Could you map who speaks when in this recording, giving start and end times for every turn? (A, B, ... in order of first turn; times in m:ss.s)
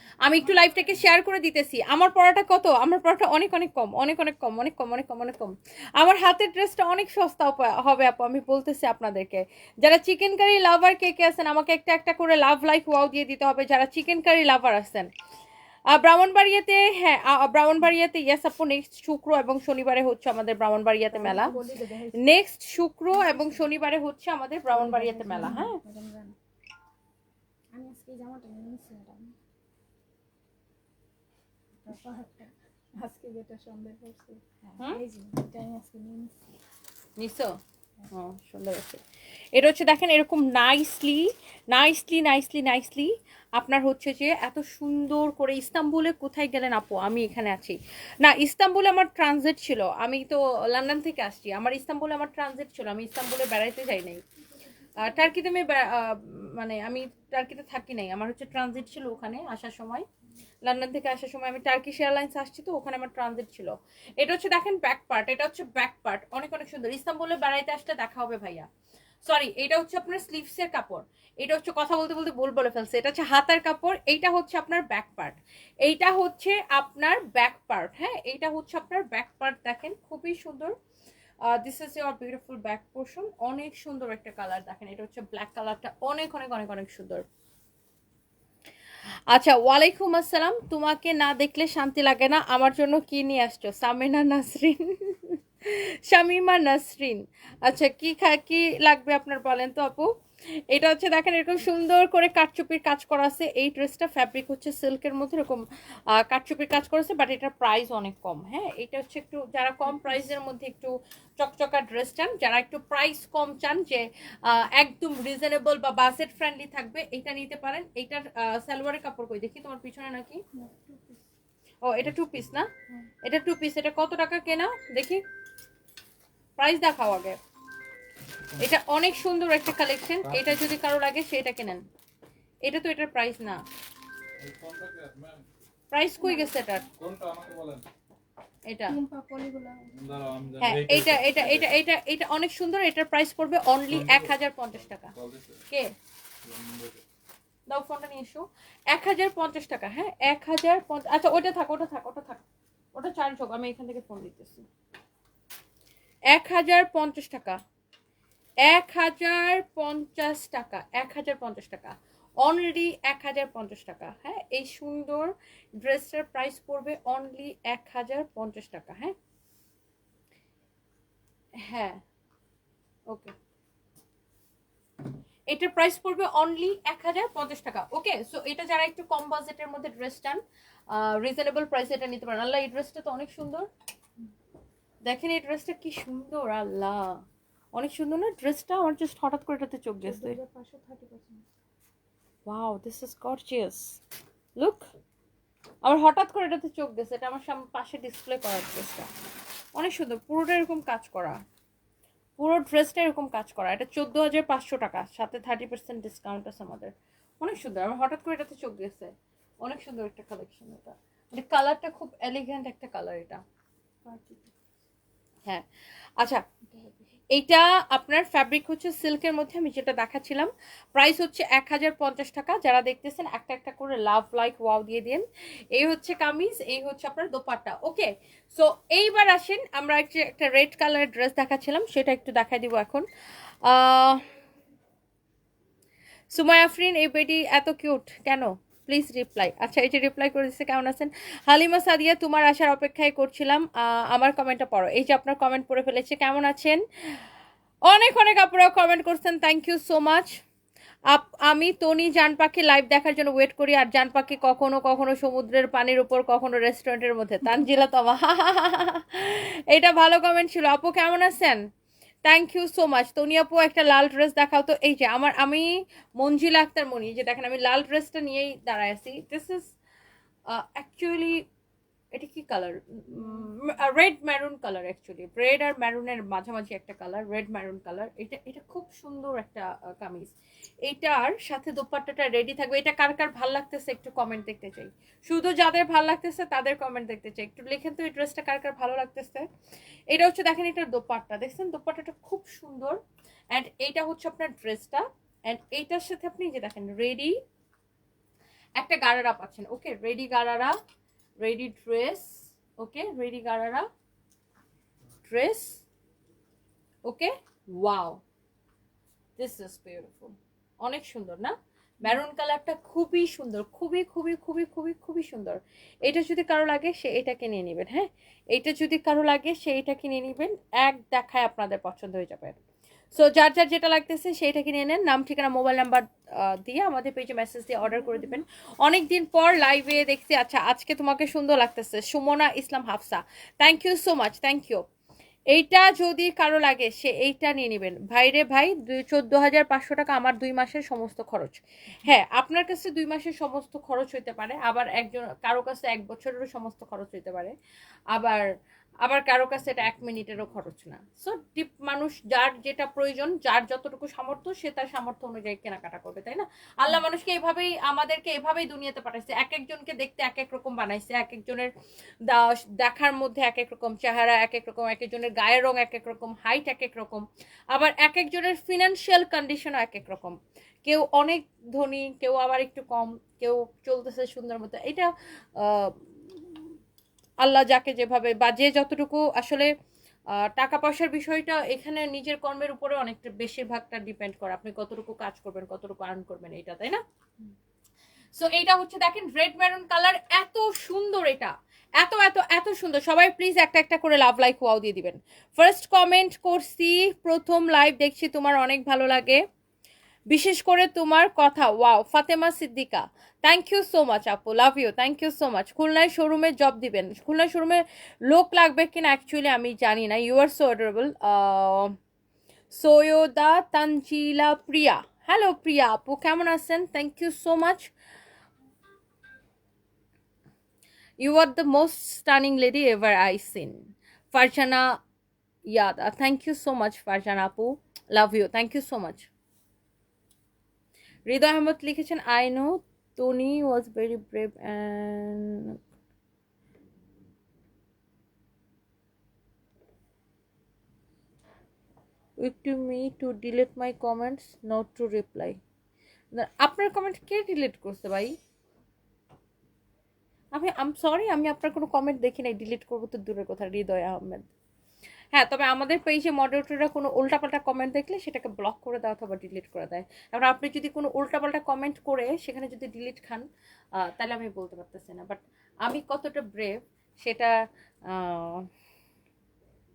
0:00.2-0:15.1 A
0:15.9-0:21.6 A
0:21.1-0:22.2 B
0:22.2-0:25.8 A
0:23.1-0:23.7 B
0:24.7-0:26.4 B
0:27.7-0:29.3 B
0:31.8-0:36.3 B
0:37.2-0:37.6 A
0:38.1-0:39.0 A
0:39.5-0:54.2 A
0:55.0-1:00.0 A
1:00.6-1:08.7 A
1:09.2-1:20.8 A
1:21.5-1:27.2 A
1:29.3-2:00.4 A
1:49.9-1:50.2 B
2:00.5-2:01.2 B
2:01.8-2:02.7 A
2:03.2-2:05.2 A
2:06.6-2:07.4 A
2:08.6-2:11.8 A
2:10.2-2:10.7 C
2:12.6-2:13.6 A
2:14.4-2:15.5 C
2:15.9-2:16.8 A
2:16.2-2:16.5 B
2:17.0-2:17.8 C
2:18.7-2:19.0 A
2:18.9-2:19.9 B
2:19.9-2:21.8 C
2:20.6-2:25.1 A
2:23.9-2:25.7 C
2:26.4-2:27.0 C
2:27.7-2:32.4 A
2:32.9-2:34.7 A
2:36.3-2:37.6 A
2:38.7-2:49.1 A
2:51.6-2:52.0 A
2:55.5-3:00.4 A
3:00.9-3:03.7 A
3:05.0-3:07.2 A
3:07.7-3:10.4 A
3:10.0-3:11.4 B
3:12.5-3:14.0 A
3:14.6-3:14.9 A
3:15.8-3:19.1 A
3:19.7-3:21.4 A
3:22.4-3:29.1 A
3:29.6-3:33.4 A
3:34.0-3:34.5 B
3:36.7-3:37.1 B
3:37.3-3:53.0 A
3:53.6-3:54.2 A
3:56.3-4:07.2 A
4:07.9-4:10.4 A
4:11.1-4:21.6 A
4:22.2-4:29.7 A
4:30.5-4:31.4 A
4:32.1-4:40.3 A
4:40.8-4:49.4 A
4:50.1-4:53.0 A
4:53.5-4:57.4 A
4:58.8-5:00.8 A
5:01.4-5:03.9 A
5:05.2-5:05.8 A
5:07.0-5:08.2 A
5:09.4-5:22.6 A
5:23.1-5:34.8 A
5:27.8-5:28.4 B
5:35.5-5:47.5 A
5:48.1-5:48.5 A
5:49.0-6:01.7 A
6:02.2-6:16.6 A
6:17.4-6:19.7 A
6:20.3-6:27.0 A
6:28.4-6:39.4 A
6:40.3-6:51.9 A
6:52.7-6:57.9 A
7:01.2-7:05.0 A
7:05.7-7:09.3 A
7:11.3-7:15.8 A
7:22.4-7:25.6 A
7:26.3-7:28.3 A
7:30.5-7:34.5 A
7:35.3-7:43.5 A
7:44.0-7:47.5 A
7:48.1-7:48.6 A